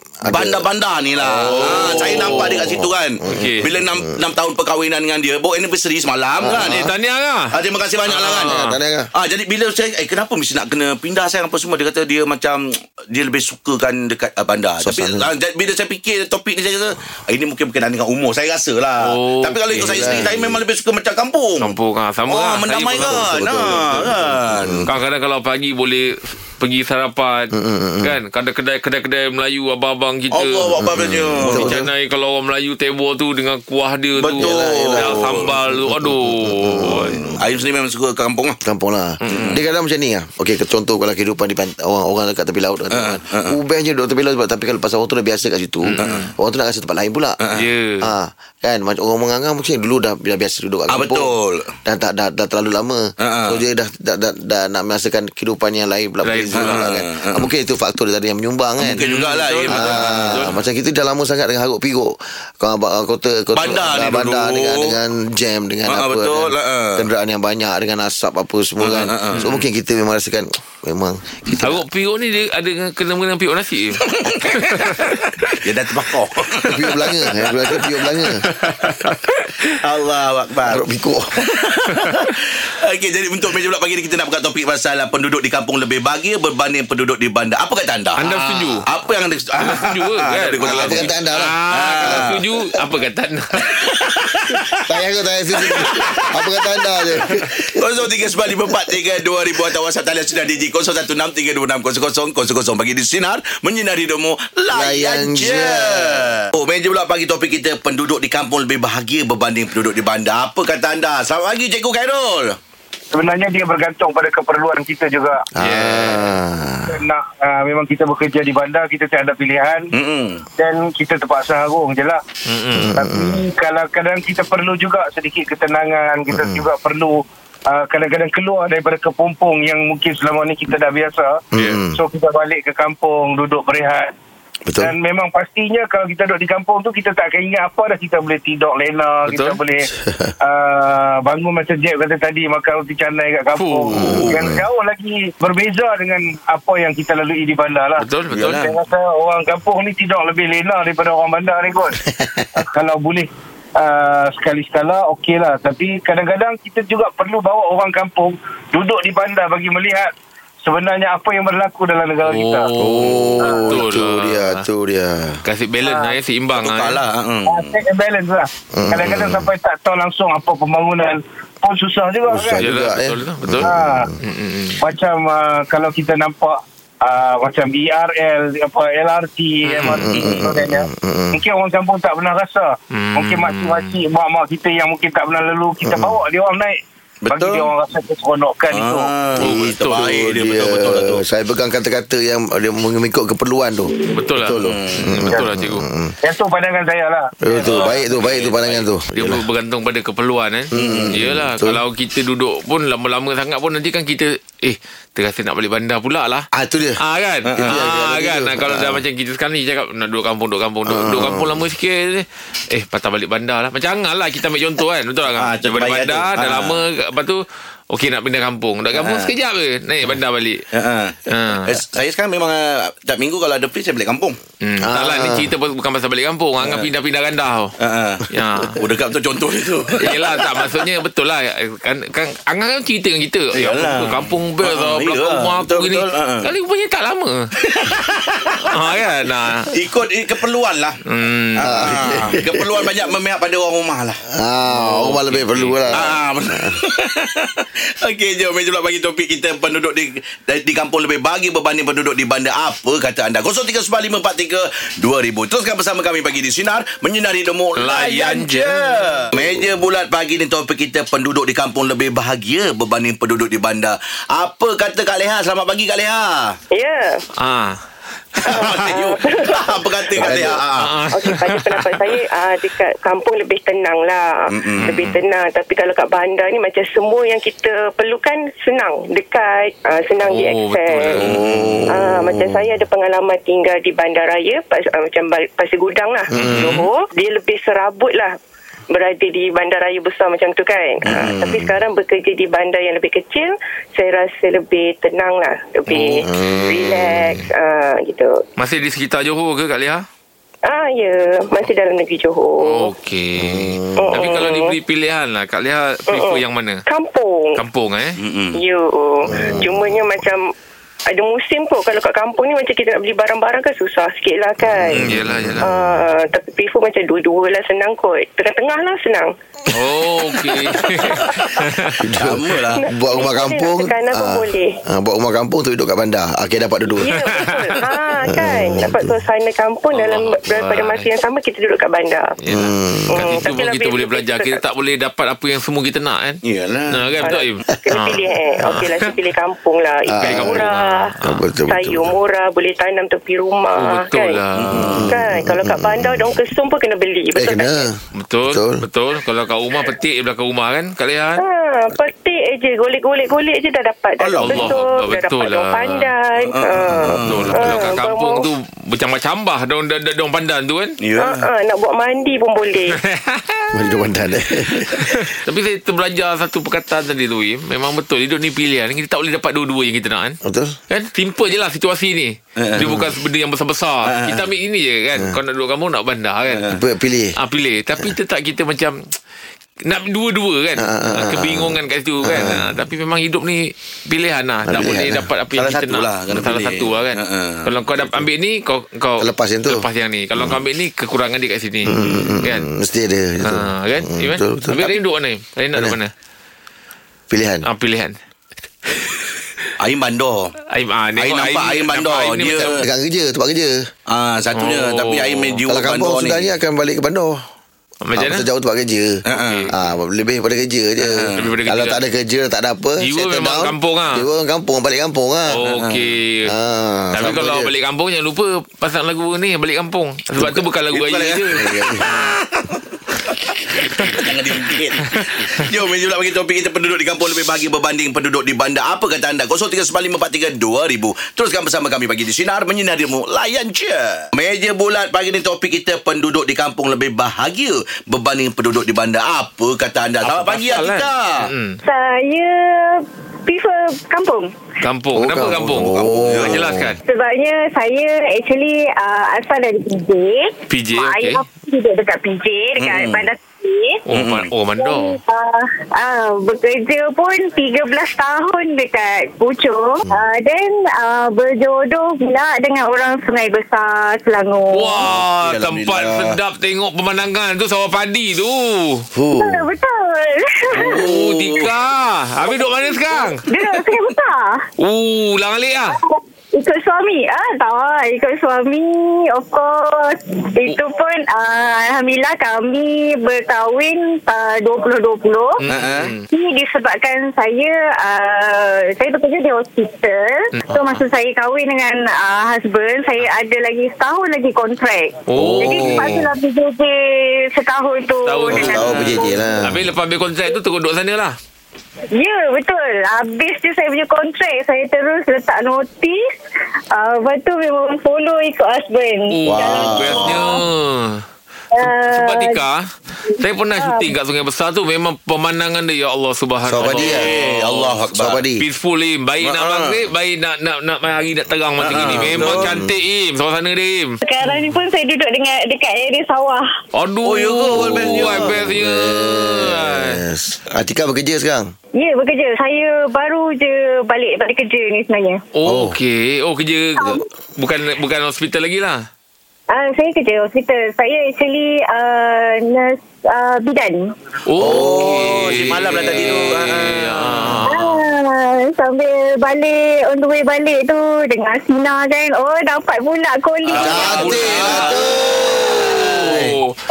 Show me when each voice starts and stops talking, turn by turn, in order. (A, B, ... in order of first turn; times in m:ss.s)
0:00.2-0:00.7 A
0:00.3-0:06.9 B
0:01.2-0:04.2 A
0:01.3-0:02.7 C
0:03.3-0:03.7 C
0:06.4-0:06.9 A
0:06.6-0:07.5 C
0:07.5-0:08.6 B
0:08.1-0:08.8 C
0:08.3-0:09.1 A
0:09.1-0:21.8 B
0:14.8-0:15.3 A
0:19.0-0:20.3 C
0:19.7-0:20.6 A
0:21.6-0:23.3 C
0:22.3-0:24.9 B
0:23.0-0:24.9 A
0:24.9-0:30.7 C
0:27.5-0:28.2 A
0:30.3-0:31.8 B
0:30.7-0:31.9 A
0:31.4-0:37.3 C
0:34.2-0:35.5 B
0:34.4-0:37.4 A
0:37.4-0:38.6 B
0:38.6-0:47.4 A
0:39.2-0:39.6 C
0:39.3-0:39.6 B
0:42.9-0:43.6 B
0:45.8-0:46.3 C
0:47.4-0:47.6 B
0:47.6-0:48.1 C
0:48.0-0:51.3 A
0:50.9-0:51.7 B
0:51.9-0:59.0 A
0:53.2-0:53.6 B
0:56.2-0:56.9 C
0:56.6-0:57.5 B
0:58.8-1:00.5 B
0:59.0-1:00.6 C
0:59.7-1:11.8 A
1:03.5-1:05.0 B
1:05.9-1:07.1 B
1:08.8-1:09.6 B
1:09.3-1:09.6 C
1:11.6-1:15.6 C
1:14.1-1:17.8 B
1:16.6-1:18.4 A
1:18.5-1:19.5 C
1:18.6-1:19.1 B
1:19.7-1:20.8 B
1:20.6-1:21.3 A
1:21.4-1:31.1 B
1:28.2-1:28.8 C
1:29.6-1:33.4 C
1:30.6-1:32.3 A
1:31.7-1:32.4 B
1:33.7-1:34.8 B
1:34.8-1:39.0 A
1:35.6-1:52.6 B
1:44.7-1:46.3 A
1:53.1-1:55.4 D
1:55.6-1:56.3 C
1:55.6-1:57.0 A
1:56.9-1:59.9 D
1:59.9-2:00.4 B
2:00.6-2:02.2 D
2:02.5-2:03.0 C
2:02.8-2:03.4 A
2:03.0-2:11.4 D
2:06.3-2:06.6 A
2:11.5-2:12.0 A
2:11.9-2:14.1 D
2:14.8-2:19.9 D
2:19.2-2:19.6 C
2:20.0-2:20.3 A
2:20.4-2:32.0 D
2:23.6-2:23.9 C
2:23.9-2:24.4 B
2:23.9-2:24.6 A
2:28.0-2:28.6 C
2:28.3-2:28.7 B
2:32.1-2:32.4 A
2:32.6-2:40.1 D
2:40.6-2:42.7 D
2:42.2-2:44.7 C
2:42.8-2:45.4 A
2:43.4-2:43.7 D
2:45.4-2:47.0 C
2:45.8-2:46.2 D
2:46.6-2:47.8 B
2:47.5-2:52.6 D
2:48.8-2:49.5 A
2:52.3-2:54.1 A
2:52.6-2:54.8 C
2:53.6-2:54.1 D
2:54.8-3:09.1 D
2:59.6-3:00.0 C
2:59.9-3:01.4 A
3:00.1-3:00.6 B
3:02.9-3:04.0 C
3:05.8-3:06.2 A
3:07.2-3:07.7 B
3:08.7-3:11.2 B
3:09.4-3:10.0 C
3:09.9-3:16.2 A
3:14.1-3:15.8 C
3:14.6-3:15.1 B
3:16.2-3:17.6 D
3:17.4-3:19.5 A
3:17.6-3:26.5 C
3:17.7-3:18.5 B
3:20.7-3:21.8 A
3:20.7-3:21.2 B
3:26.5-3:27.0 A
3:27.0-3:40.6 C
3:27.5-3:27.8 B
3:27.6-3:29.0 A
3:30.9-3:31.6 A
3:35.4-3:36.8 B
3:38.9-3:39.3 B
3:40.7-3:44.4 B
3:41.3-3:41.7 C
3:44.6-3:47.7 C
3:44.8-3:45.5 A
3:46.6-3:46.9 B
3:47.8-3:48.2 B
3:48.3-3:48.8 C
3:48.8-3:50.4 B
3:50.0-3:57.5 C
3:53.5-3:56.5 B
3:57.6-3:58.9 B
3:58.7-3:59.7 C
3:59.7-4:01.0 B
4:01.1-4:02.3 C
4:01.6-4:04.2 B
4:01.6-4:02.9 A
4:04.3-4:06.8 A
4:04.7-4:06.2 C
4:05.9-4:26.6 B
4:17.8-4:19.3 C
4:26.7-4:27.2 E
4:27.4-4:27.8 C
4:28.5-4:31.0 B
4:28.5-4:30.3 E
4:30.2-4:30.6 A
4:30.8-4:32.0 C
4:31.1-4:41.2 E
4:34.5-4:34.9 B
4:34.8-4:35.2 C
4:40.2-4:42.0 C
4:41.2-4:41.7 B
4:41.4-4:42.8 A
4:41.9-4:48.3 E
4:46.3-4:46.8 A
4:46.3-4:46.9 C
4:48.9-4:58.4 E
4:51.1-4:51.8 A
4:55.9-4:56.7 C
4:56.2-4:57.4 A
4:58.6-5:00.1 C
5:00.6-5:02.9 E
5:02.6-5:06.8 C
5:03.4-5:04.4 A
5:04.0-5:04.7 E
5:06.1-5:07.6 E
5:07.6-5:08.2 C
5:08.2-5:08.6 B
5:08.6-5:10.5 E
5:09.3-5:10.0 A
5:11.1-5:15.0 E
5:14.6-5:16.0 A
5:14.9-5:15.8 C
5:15.6-5:19.3 E
5:19.7-5:22.0 C
5:21.2-5:21.6 B
5:22.0-5:27.2 A
5:22.2-5:22.8 B
5:22.8-5:24.8 E
5:27.0-5:32.4 E
5:27.1-5:27.8 C
5:28.3-5:29.1 A
5:29.9-5:31.1 C
5:32.4-5:36.4 C
5:32.5-5:33.4 A
5:33.1-5:34.6 E
5:36.4-5:37.2 B
5:36.9-5:39.1 C
5:37.2-5:41.0 E
5:40.1-5:40.7 A
5:40.2-5:41.4 C
5:41.2-5:42.2 A
5:41.7-5:44.4 E
5:43.8-5:45.0 C
5:44.6-5:45.1 B
5:44.8-5:46.4 A
5:45.1-5:47.9 E
5:47.4-5:48.8 A
5:48.2-5:51.4 C
5:51.4-5:58.5 E
5:54.2-5:54.6 B
5:54.4-5:56.1 C
5:56.4-5:57.5 B
5:56.9-5:57.9 A
5:57.2-6:01.0 C
6:01.0-6:01.5 B
6:01.2-6:03.0 E
6:03.1-6:03.7 C
6:03.7-6:05.3 A
6:05.0-6:10.4 C
6:10.4-6:10.8 A
6:10.9-6:16.8 C
6:12.6-6:12.9 B
6:12.8-6:13.1 A
6:14.0-6:14.5 B
6:16.5-6:16.8 B
6:16.7-6:17.4 A
6:17.4-6:19.2 C
6:19.8-6:32.7 C
6:20.8-6:22.7 A
6:24.7-6:25.3 A
6:25.6-6:27.7 B
6:29.2-6:29.9 A
6:31.9-6:34.8 A
6:32.0-6:32.4 B
6:33.4-6:36.1 C
6:37.3-6:37.7 A
6:37.6-6:38.2 C
6:38.9-6:39.3 C
6:39.8-6:40.5 B
6:40.7-6:42.8 C
6:41.2-6:42.8 B
6:42.6-6:43.9 A
6:44.1-6:46.5 B
6:44.6-6:45.6 C
6:45.7-6:47.4 A
6:48.0-6:48.5 C
6:48.2-6:49.2 A
6:49.3-6:49.7 B
6:49.3-6:50.0 C
6:49.7-6:55.6 A
6:51.1-6:51.4 B
6:51.4-6:52.0 C
6:53.0-6:54.2 C
6:55.5-6:56.5 C
6:55.7-6:56.0 B
6:56.5-6:57.7 A
6:57.1-7:02.2 C
7:00.4-7:00.6 A
7:00.9-7:21.4 B
7:01.5-7:02.1 A
7:20.2-7:21.8 C
7:21.8-7:24.5 F
7:24.8-7:27.0 C
7:25.2-7:26.9 A
7:25.5-7:26.7 B
7:27.1-7:34.0 F
7:30.7-7:31.4 C
7:32.8-7:33.3 B
7:34.1-7:35.2 C
7:34.1-7:34.5 B
7:34.8-7:45.1 F
7:44.7-7:49.1 C
7:45.0-7:46.4 B
7:49.2-7:49.7 A
7:49.4-7:51.1 F
7:50.7-7:51.7 B
7:50.7-7:53.5 C
7:53.1-7:54.7 F
7:54.8-7:56.0 C
7:55.9-8:05.6 F
8:05.6-8:06.2 C
8:05.7-8:06.1 B
8:06.3-8:19.3 F
8:10.6-8:11.0 C
8:15.3-8:16.3 C
8:15.4-8:16.2 B
8:18.2-8:21.4 C
8:18.6-8:19.9 A
8:18.6-8:19.1 B
8:22.2-8:26.3 F
8:26.9-8:30.6 F
8:29.3-8:31.2 C
8:29.5-8:30.6 A
8:31.8-8:32.6 F
8:31.8-8:32.8 C
8:33.4-8:38.0 C
8:33.8-8:34.2 F
8:36.7-8:37.3 A
8:36.8-8:38.4 B
8:38.1-8:38.6 A
8:38.6-8:44.6 C
8:39.4-8:40.0 B
8:41.8-8:42.8 B
8:42.0-8:42.9 A
8:44.2-8:46.7 F
8:46.9-8:50.2 C
8:47.2-8:48.6 B
8:47.7-8:51.7 A
8:52.0-8:55.4 F
8:55.6-8:59.0 C
8:55.6-8:56.0 A
8:57.0-8:57.2 F
8:59.7-9:04.1 F
9:04.5-9:08.0 C
9:04.6-9:07.6 B
9:07.6-9:14.2 F
9:13.6-9:16.4 B
9:13.7-9:16.6 A
9:13.8-9:15.0 C
9:15.7-9:16.8 C